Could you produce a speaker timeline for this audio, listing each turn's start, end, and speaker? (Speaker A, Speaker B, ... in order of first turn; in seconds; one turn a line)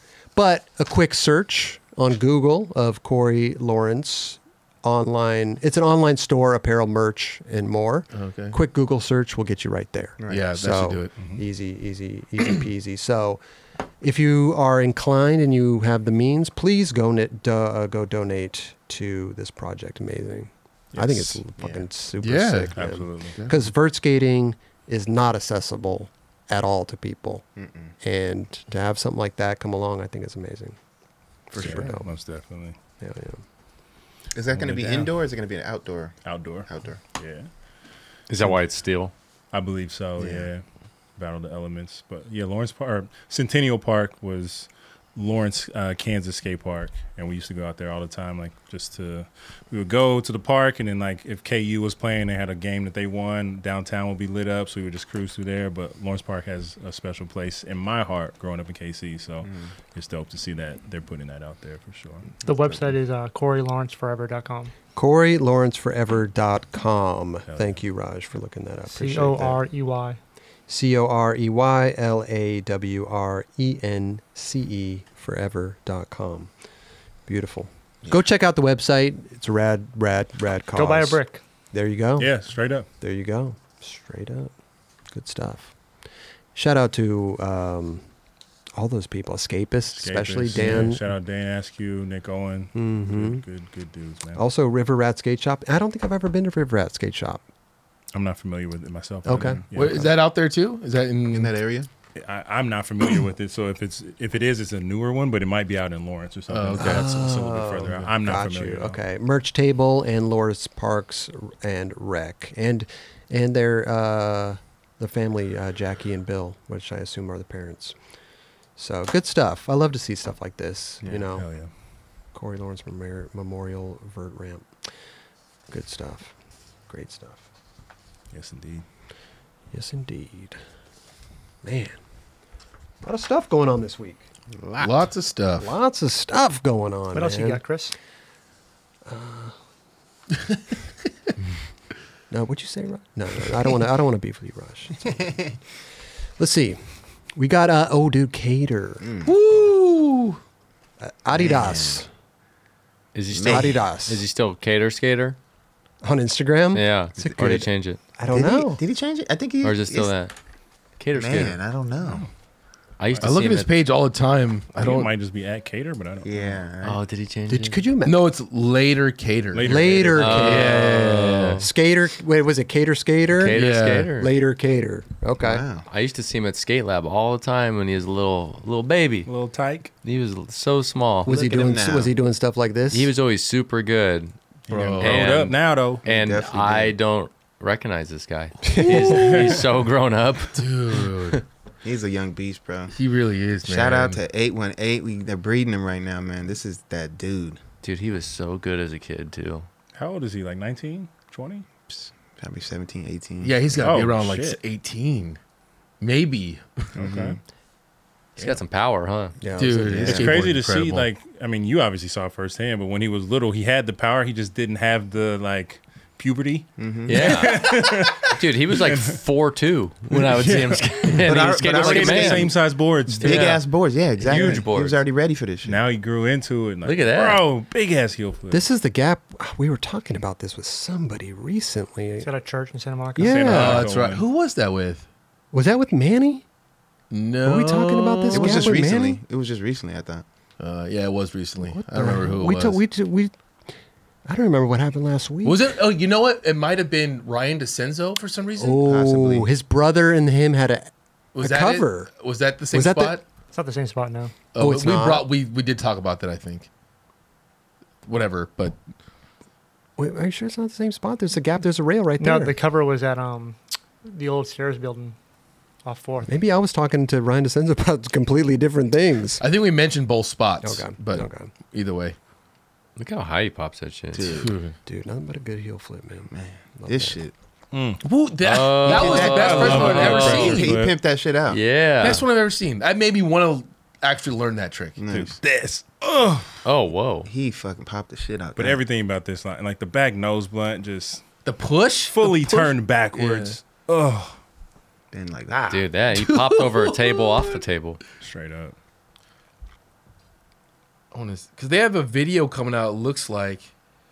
Speaker A: 0.3-13.4
Speaker B: 8.1-8.6
Speaker C: 10.2-10.5
Speaker B: 10.3-11.1
Speaker D: 11.2-11.4
Speaker A: 14.0-27.5
Speaker D: 20.9-21.4
Speaker C: 21.6-21.8
Speaker B: 22.2-22.7
Speaker D: 22.8-23.4
Speaker C: 27.6-27.9
Speaker A: 28.0-30.8
Speaker A: 31.5-32.1
Speaker B: 31.6-31.8
Speaker D: 31.6-32.8
Speaker A: 33.0-33.4
Speaker C: 34.4-37.0
Speaker D: 34.5-35.1
Speaker D: 36.2-37.5
Speaker E: 38.3-39.1
Speaker D: 39.5-40.6
Speaker C: 40.2-40.5
Speaker D: 41.2-62.3
Speaker F: 62.4-64.7
Speaker A: 65.0-69.6
Speaker D: 67.5-67.8
Speaker F: 68.9-70.2
Speaker A: 70.7-76.5
Speaker A: 77.3-81.2
Speaker F: 80.7-81.4
Speaker A: 81.7-82.4
Speaker D: 82.2-82.9
Speaker A: 83.0-84.5
Speaker A: 85.1-85.7
Speaker A: 86.5-88.0
Speaker A: 88.8-91.1
Speaker D: 90.0-94.4
Speaker A: 92.8-93.4
Speaker A: 94.4-97.4
Speaker D: 98.1-100.1
Speaker A: 99.3-100.0
Speaker B: 99.7-101.5
Speaker C: 101.3-101.9
Speaker D: 102.2-109.0
Speaker B: 106.5-107.2
Speaker A: 106.8-118.0
Speaker A: 118.8-121.5
Speaker D: 121.3-121.7
Speaker A: 122.3-124.7
Speaker A: 125.7-126.3
Speaker A: 126.9-127.5
Speaker D: 128.3-128.8
Speaker A: 129.7-130.6
Speaker A: 131.6-132.0
Speaker A: 133.0-134.2
Speaker C: 134.6-135.1
Speaker B: 134.8-135.7
Speaker A: 135.6-137.6
Speaker F: 137.1-137.9
Speaker A: 139.1-139.6
Speaker A: 142.3-145.2
Speaker C: 145.1-145.6
Speaker A: 146.4-146.8
Speaker A: 147.3-149.1
Speaker C: 149.0-149.3
Speaker B: 149.2-150.4
Speaker A: 151.0-152.1
Speaker C: 151.3-152.0
Speaker E: 153.2-155.4
Speaker C: 153.3-153.8
Speaker A: 153.4-154.2
Speaker A: 156.0-158.8
Speaker E: 156.7-158.0
Speaker C: 158.3-160.1
Speaker E: 159.6-160.3
Speaker E: 161.0-161.6
Speaker C: 161.1-162.2
Speaker D: 162.0-162.3
Speaker E: 163.0-163.7
Speaker B: 163.2-165.1
Speaker D: 164.8-166.6
Speaker C: 166.2-167.0
Speaker E: 166.8-167.8
Speaker A: 167.5-168.2
Speaker B: 168.1-171.7
Speaker D: 169.5-170.4
Speaker A: 169.6-175.6
Speaker E: 170.2-171.7
Speaker E: 173.3-174.3
Speaker B: 173.5-174.1
Speaker C: 175.4-175.9
Speaker E: 175.9-179.3
Speaker D: 179.3-179.9
Speaker E: 180.0-181.3
Speaker C: 181.3-182.1
Speaker A: 181.3-183.1
Speaker E: 182.9-184.3
Speaker D: 184.7-186.1
Speaker B: 184.7-185.4
Speaker E: 185.0-190.7
Speaker C: 186.1-187.0
Speaker A: 188.7-189.1
Speaker D: 189.0-189.7
Speaker B: 190.6-191.4
Speaker C: 191.8-192.9
Speaker B: 192.9-194.2
Speaker C: 193.6-197.6
Speaker E: 197.8-199.7
Speaker D: 199.9-201.7
Speaker C: 201.9-203.7
Speaker B: 203.4-205.4
Speaker D: 203.8-204.6
Speaker B: 206.0-206.9
Speaker C: 207.0-207.4
Speaker D: 207.0-207.4
Speaker E: 208.4-209.3
Speaker A: 209.4-210.4
Speaker B: 209.6-211.1
Speaker C: 209.9-210.4
Speaker D: 210.1-219.2
Speaker C: 216.8-217.7
Speaker E: 217.1-222.5
Speaker D: 220.1-223.6
Speaker C: 221.2-225.8
Speaker E: 223.1-223.6
Speaker E: 224.2-225.0
Speaker D: 224.3-224.6
Speaker D: 225.7-228.6
Speaker E: 226.8-227.4
Speaker A: 228.5-232.3
Speaker F: 232.2-233.6
Speaker A: 233.2-233.9
Speaker D: 233.2-234.2
Speaker B: 233.5-235.1
Speaker A: 235.5-236.4
Speaker B: 237.1-238.8
Speaker A: 237.4-239.2
Speaker C: 238.3-240.2
Speaker B: 240.6-242.8
Speaker A: 241.6-243.3
Speaker A: 244.3-245.8
Speaker B: 245.4-248.8
Speaker A: 248.6-252.1
Speaker C: 248.8-249.5
Speaker B: 251.3-253.2
Speaker A: 252.7-253.2
Speaker F: 253.5-254.4
Speaker B: 254.5-256.7
Speaker A: 254.6-255.3
Speaker B: 258.1-258.8
Speaker A: 260.0-262.6
Speaker F: 262.2-265.2
Speaker F: 265.8-266.3
Speaker A: 266.3-269.4
Speaker B: 269.4-272.2
Speaker A: 270.6-271.5
Speaker E: 273.0-274.4
Speaker C: 274.1-274.5
Speaker B: 274.3-274.8
Speaker A: 274.9-277.2
Speaker C: 276.3-277.3
Speaker D: 277.7-278.0
Speaker B: 278.0-280.7
Speaker E: 278.4-280.7
Speaker C: 278.9-281.6
Speaker D: 279.2-281.0
Speaker E: 281.5-282.2
Speaker B: 282.0-285.1
Speaker C: 285.0-285.4
Speaker D: 285.1-286.6
Speaker E: 286.6-287.3
Speaker C: 287.3-288.8
Speaker D: 288.6-291.2
Speaker B: 291.4-293.6
Speaker D: 292.1-294.4
Speaker C: 295.1-295.9
Speaker E: 295.7-298.0
Speaker B: 296.1-297.6
Speaker D: 298.2-298.8
Speaker B: 301.1-303.7